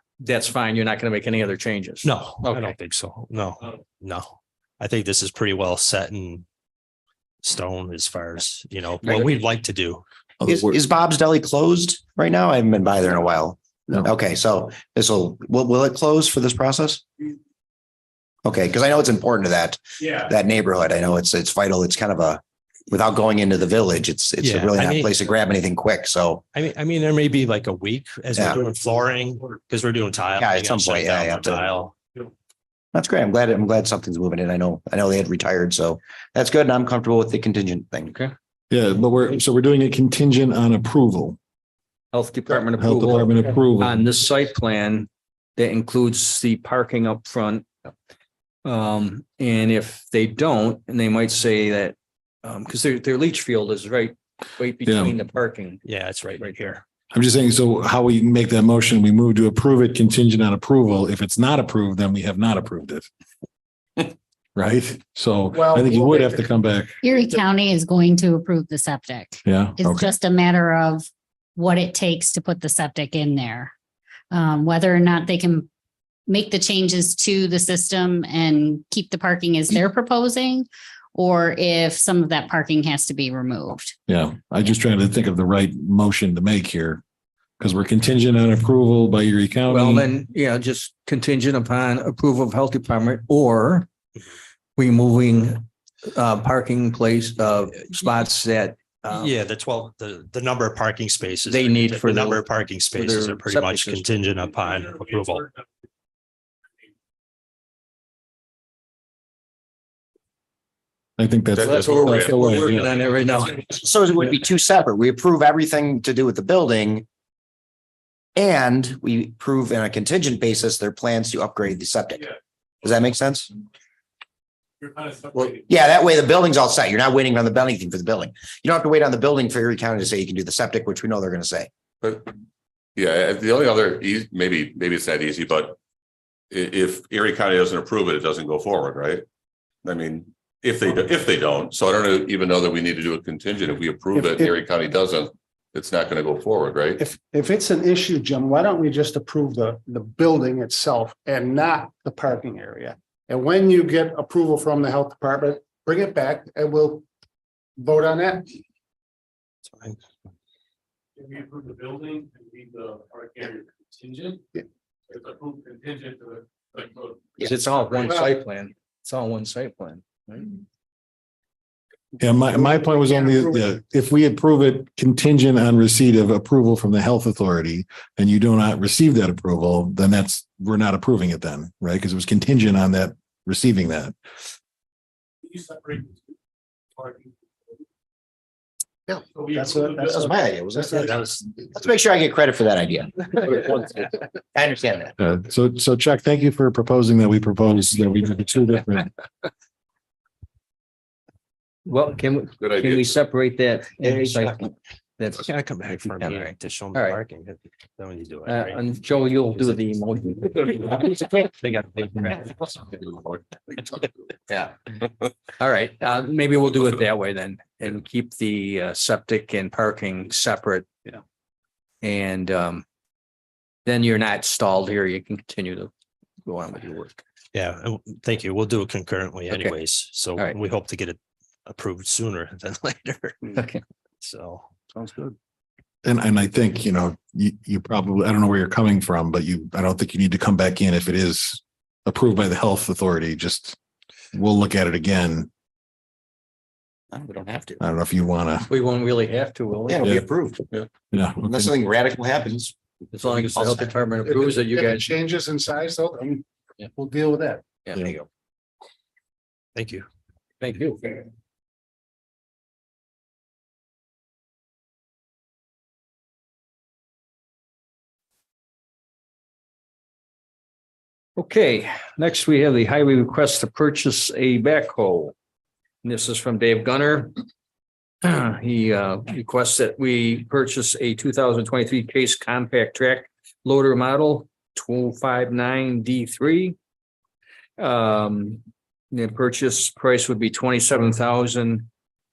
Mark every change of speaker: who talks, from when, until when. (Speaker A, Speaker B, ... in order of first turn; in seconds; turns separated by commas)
Speaker A: 0.2-2.7, Speaker B: 2.0-6.4, Speaker B: 7.4-10.0, Speaker C: 10.4-10.8, Speaker D: 10.4-17.0, Speaker D: 18.4-26.4, Speaker B: 24.4-25.1, Speaker B: 26.5-31.9, Speaker D: 28.3-28.6, Speaker D: 30.4-31.6, Speaker D: 32.9-38.1, Speaker C: 38.7-41.4, Speaker A: 42.1-47.9, Speaker C: 42.7-44.0, Speaker A: 48.6-56.6, Speaker C: 54.8-55.1, Speaker B: 55.8-56.8, Speaker C: 57.1-63.1, Speaker C: 64.5-67.0, Speaker E: 65.5-66.4, Speaker F: 67.0-73.7, Speaker C: 69.5-70.1, Speaker F: 74.3-75.7, Speaker F: 76.3-84.0, Speaker C: 84.1-87.0, Speaker C: 87.6-90.1, Speaker A: 89.7-93.9, Speaker A: 94.8-99.3, Speaker B: 99.1-105.5, Speaker A: 101.5-104.0, Speaker C: 111.2-112.9, Speaker G: 111.5-112.7, Speaker A: 111.6-113.8, Speaker D: 113.8-117.0, Speaker D: 118.3-123.5, Speaker G: 125.3-125.6, Speaker D: 125.6-131.7, Speaker G: 132.0-132.3, Speaker G: 132.9-135.8, Speaker G: 136.5-139.2, Speaker G: 139.8-147.0, Speaker E: 144.1-144.5, Speaker E: 147.0-157.0, Speaker E: 157.8-158.5, Speaker B: 159.7-160.0, Speaker H: 161.2-164.2, Speaker H: 165.2-167.0, Speaker A: 167.4-170.6, Speaker E: 168.1-168.3, Speaker C: 172.2-184.1, Speaker E: 172.5-173.6, Speaker H: 185.7-186.0, Speaker E: 189.1-191.0, Speaker D: 189.9-195.1, Speaker C: 195.2-199.1, Speaker A: 201.8-207.2, Speaker G: 202.6-203.1, Speaker B: 205.4-208.8, Speaker A: 208.4-211.3, Speaker B: 211.6-212.4, Speaker A: 215.6-221.2, Speaker A: 222.0-222.8, Speaker A: 223.8-225.9, Speaker A: 226.4-227.2, Speaker B: 227.5-233.6, Speaker A: 229.5-229.8, Speaker A: 233.5-233.8, Speaker B: 234.2-234.7, Speaker C: 236.0-243.8, Speaker C: 244.3-245.5, Speaker D: 247.1-247.8, Speaker C: 247.8-248.7, Speaker A: 248.7-250.1, Speaker D: 249.9-250.6, Speaker C: 251.1-251.7, Speaker D: 251.4-252.7, Speaker A: 253.1-255.1, Speaker D: 253.3-253.9, Speaker E: 254.2-257.8, Speaker A: 257.9-258.1, Speaker B: 259.7-260.1, Speaker A: 260.6-261.2, Speaker A: 271.4-275.3, Speaker A: 276.0-277.3, Speaker A: 278.2-286.8, Speaker A: 287.8-291.9